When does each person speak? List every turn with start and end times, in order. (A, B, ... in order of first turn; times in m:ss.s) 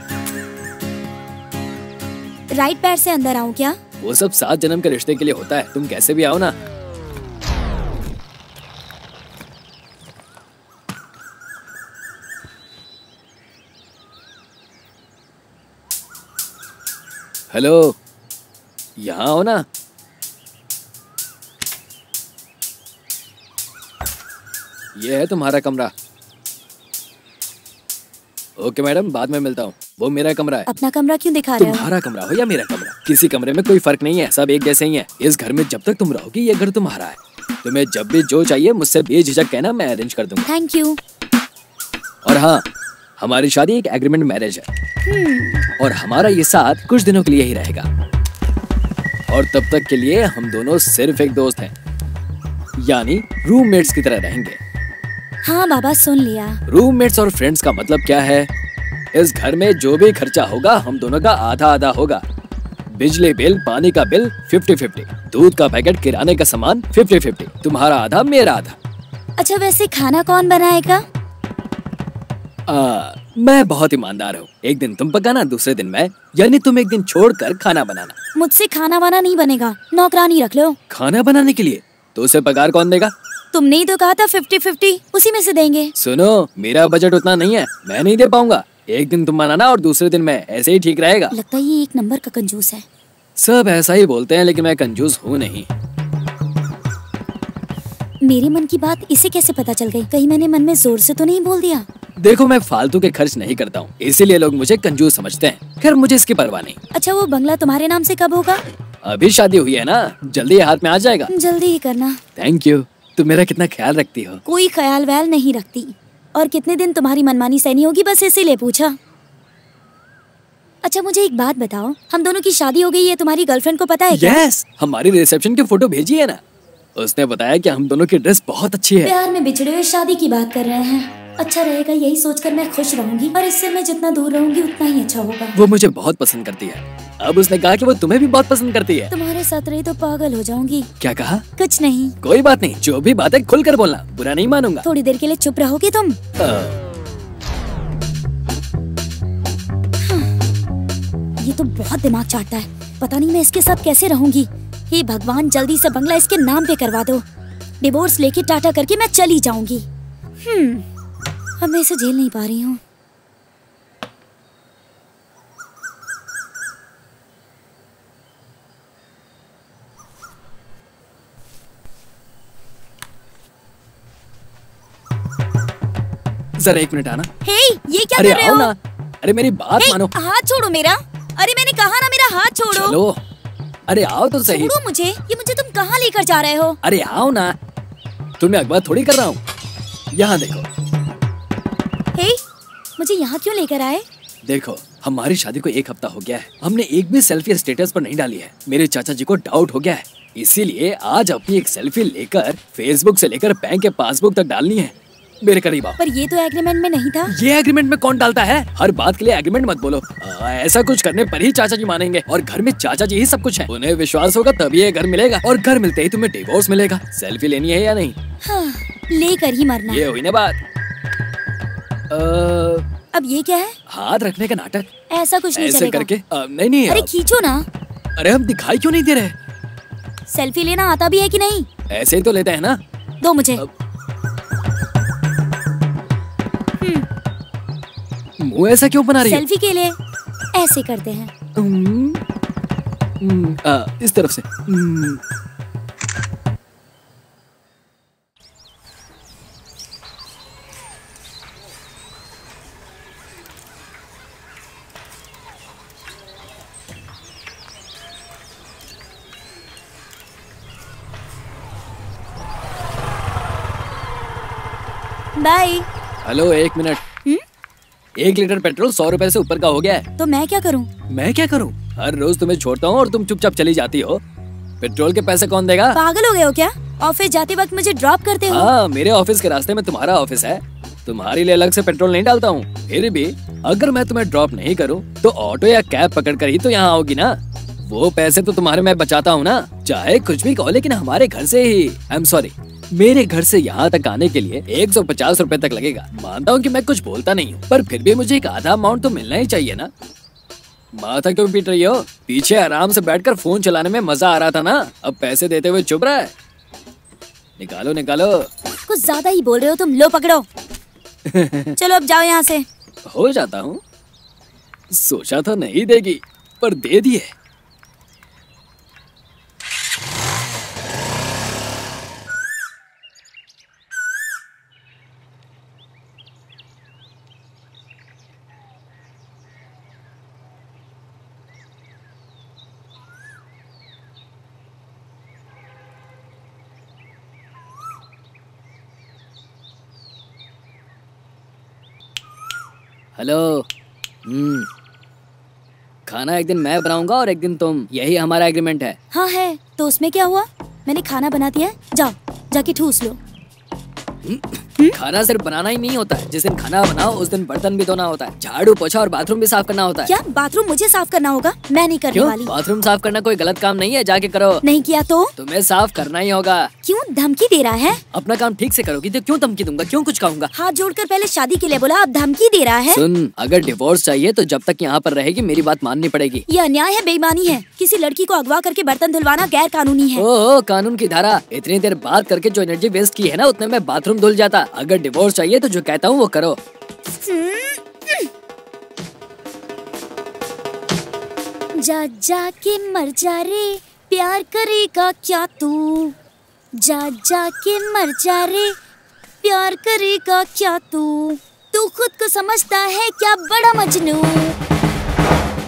0:02.5-0:03.8 A
0:04.0-0:06.6 B
0:17.5-0:18.0 B
0:19.0-0:19.6 B
0:25.0-0:25.9 B
0:28.6-0:30.7 B
0:30.7-0:31.9 A
0:31.6-0:40.4 B
0:40.4-0:41.0 A
0:42.2-0:42.6 B
0:43.2-0:44.7 B
0:45.1-0:45.7 A
0:45.8-0:47.9 B
0:49.3-0:51.7 B
0:52.8-0:54.6 B
0:55.4-0:56.6 A
0:56.7-0:58.5 B
0:59.1-1:02.2 B
1:02.9-1:08.8 B
1:09.4-1:11.0 A
1:12.7-1:18.2 B
1:18.4-1:20.8 A
1:20.9-1:23.1 B
1:23.5-1:25.9 A
1:26.0-1:31.3 B
1:31.3-1:32.8 A
1:33.4-1:35.7 B
1:38.2-1:41.9 A
1:42.2-1:46.8 B
1:46.9-1:48.6 A
1:49.0-1:51.3 B
1:51.3-1:52.2 A
1:52.4-1:54.4 B
1:54.5-1:59.0 A
2:00.8-2:04.4 A
2:04.1-2:06.4 B
2:07.0-2:09.1 B
2:09.0-2:15.6 A
2:15.6-2:19.1 B
2:19.1-2:20.9 A
2:21.0-2:21.4 B
2:21.6-2:22.2 A
2:22.2-2:24.9 B
2:24.8-2:26.2 A
2:26.4-2:26.8 B
2:30.0-2:30.3 A
2:31.4-2:37.2 A
2:37.8-2:39.9 A
2:40.4-2:40.8 A
2:41.6-2:42.8 A
2:56.6-2:57.3 B
2:57.4-2:58.7 A
2:58.2-3:00.1 B
2:59.8-3:03.0 A
3:02.7-3:03.2 B
3:03.9-3:04.7 B
3:04.5-3:06.8 A
3:06.8-3:07.6 B
3:08.4-3:09.4 B
3:10.1-3:10.7 B
3:13.0-3:14.0 A
3:14.4-3:26.0 B
3:26.0-3:27.3 A
3:27.3-3:38.2 B
3:38.4-3:40.0 A
3:39.9-3:40.6 B
3:42.1-3:42.9 B
3:43.1-3:43.8 A
3:43.9-3:44.9 B
3:45.1-3:46.1 A
3:45.6-3:47.1 B
3:46.9-3:47.7 A
3:48.2-3:49.4 B
3:50.3-3:51.7 A
3:51.9-3:52.8 B
3:53.2-3:53.6 A
3:56.8-3:57.1 A
3:58.4-3:59.4 B
3:59.2-4:00.0 A
4:00.6-4:01.3 A
4:01.6-4:02.2 B
4:03.2-4:05.2 B
4:25.4-4:25.9 A
4:26.2-4:27.0 B
4:28.2-4:30.1 B
4:30.2-4:30.9 A
4:31.1-4:34.2 B
4:34.8-4:36.0 B
4:35.9-4:38.7 A
4:38.5-4:59.9 B
5:01.0-5:06.3 B
5:07.6-5:08.5 B
5:08.7-5:10.4 A
5:11.3-5:11.8 B
5:11.8-5:12.6 A
5:13.1-5:13.8 B
5:14.9-5:17.3 B
5:43.2-5:43.7 B
5:44.3-5:44.7 B
5:46.1-5:49.0 B
5:49.1-5:53.2 A
5:54.2-6:00.1 B
6:00.1-6:02.5 A
6:02.1-6:04.6 B
6:04.6-6:05.3 A
6:05.4-6:06.7 B
6:06.8-6:08.0 A
6:08.1-6:10.5 B
6:10.5-6:13.0 A
6:12.9-6:16.5 B
6:16.5-6:20.3 A
6:20.2-6:26.6 B
6:27.1-6:28.3 A
6:31.8-6:36.2 A
6:36.8-6:38.8 A
6:39.4-6:44.6 A